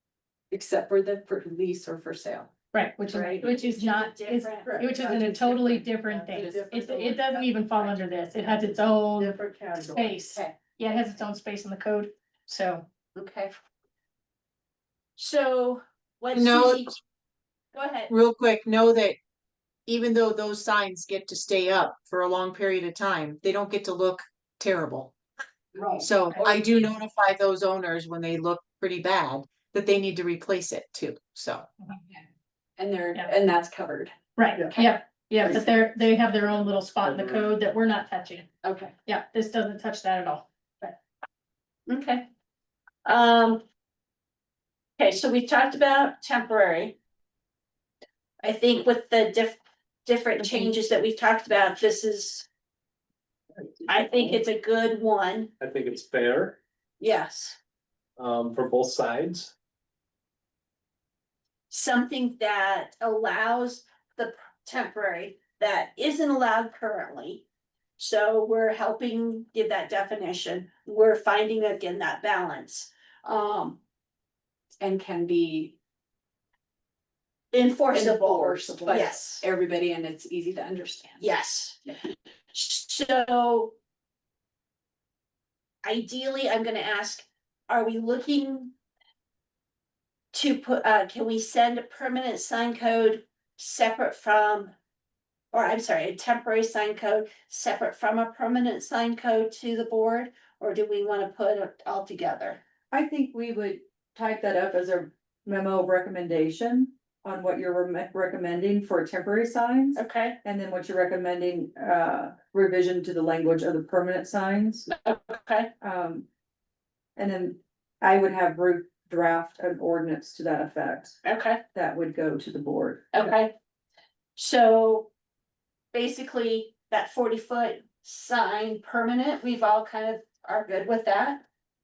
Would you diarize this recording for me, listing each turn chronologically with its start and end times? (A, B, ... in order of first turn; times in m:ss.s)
0:00.5-0:02.5 A
0:02.7-0:12.9 B
0:03.1-0:05.3 C
0:04.6-0:05.3 D
0:05.0-0:07.2 A
0:06.1-0:07.5 D
0:09.2-0:10.2 D
0:13.2-0:13.5 C
0:15.2-0:16.9 C
0:16.3-0:17.0 E
0:17.7-0:18.1 C
0:18.1-0:19.2 E
0:19.9-0:25.1 E
0:25.8-0:26.1 A
0:26.0-0:31.7 E
0:32.8-0:35.6 A
0:34.4-0:38.5 B
0:37.0-0:37.6 D
0:38.6-0:39.0 A
0:39.0-0:41.0 B
0:41.9-0:42.3 C
0:43.0-0:43.6 C
0:45.0-0:47.0 C
0:48.4-0:52.5 C
0:53.9-0:55.5 C
0:55.6-0:56.6 D
0:57.0-0:57.6 C
0:58.2-0:59.5 D
1:01.7-1:07.4 C
1:08.0-1:13.8 C
1:14.8-1:15.8 A
1:17.5-1:19.5 C
1:17.9-1:21.2 A
1:21.2-1:21.8 C
1:22.5-1:23.8 C
1:25.8-1:28.7 C
1:30.3-1:34.7 C
1:35.5-1:42.6 C
1:42.9-1:54.9 F
1:50.0-1:50.4 C
1:54.9-1:55.7 C
1:55.8-1:56.3 F
1:57.2-2:01.2 F
2:01.2-2:01.6 C
2:01.7-2:03.0 F
2:03.1-2:03.5 C
2:04.4-2:05.1 C
2:05.9-2:11.4 C